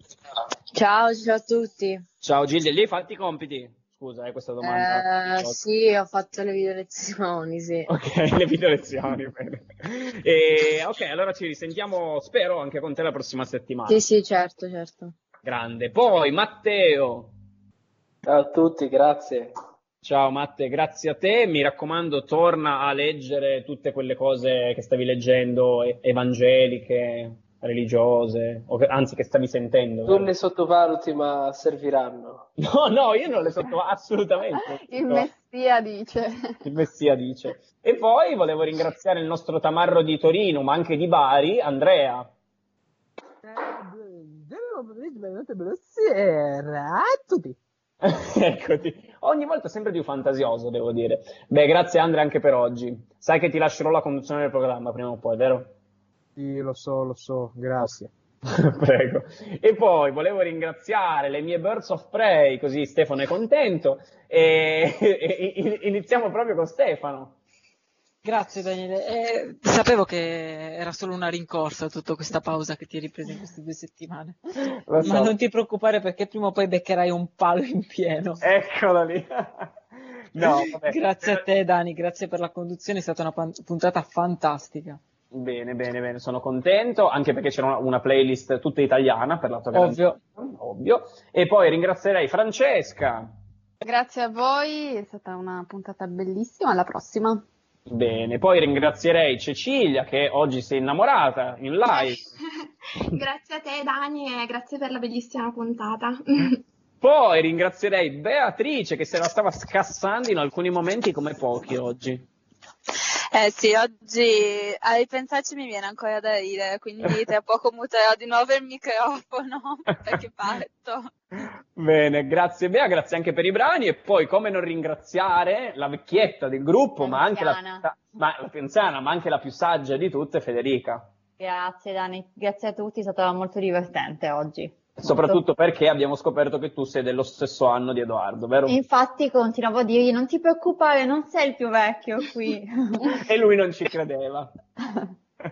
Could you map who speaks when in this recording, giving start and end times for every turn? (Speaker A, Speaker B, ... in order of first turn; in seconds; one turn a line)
Speaker A: 0.7-2.0
Speaker B: 2.2-5.6
Speaker A: 4.6-7.9
Speaker B: 7.9-14.0
Speaker A: 13.9-15.1
Speaker B: 15.4-17.3
Speaker C: 18.2-19.5
Speaker B: 20.0-30.3
Speaker C: 30.1-32.5
Speaker B: 32.6-35.3
Speaker D: 34.7-36.6
Speaker B: 36.6-42.3
Speaker E: 43.4-47.6
Speaker B: 48.0-55.7
Speaker E: 56.4-58.1
Speaker B: 58.5-67.4
Speaker F: 68.2-74.4
Speaker B: 74.8-75.3
Speaker F: 75.0-78.4
Speaker B: 78.4-79.7
Speaker B: 80.3-81.5
Speaker F: 80.4-85.0
Speaker B: 85.3-93.3
Speaker F: 89.7-90.2
Speaker D: 93.8-97.4
Speaker B: 97.9-102.2
Speaker G: 101.9-102.3
Speaker G: 103.1-106.6
Speaker B: 107.0-112.3
Speaker H: 113.3-121.1
Speaker B: 121.4-131.1
Speaker I: 127.0-127.8
Speaker I: 131.4-135.4
Speaker B: 135.0-138.8
Speaker I: 138.7-143.1
Speaker B: 143.2-144.5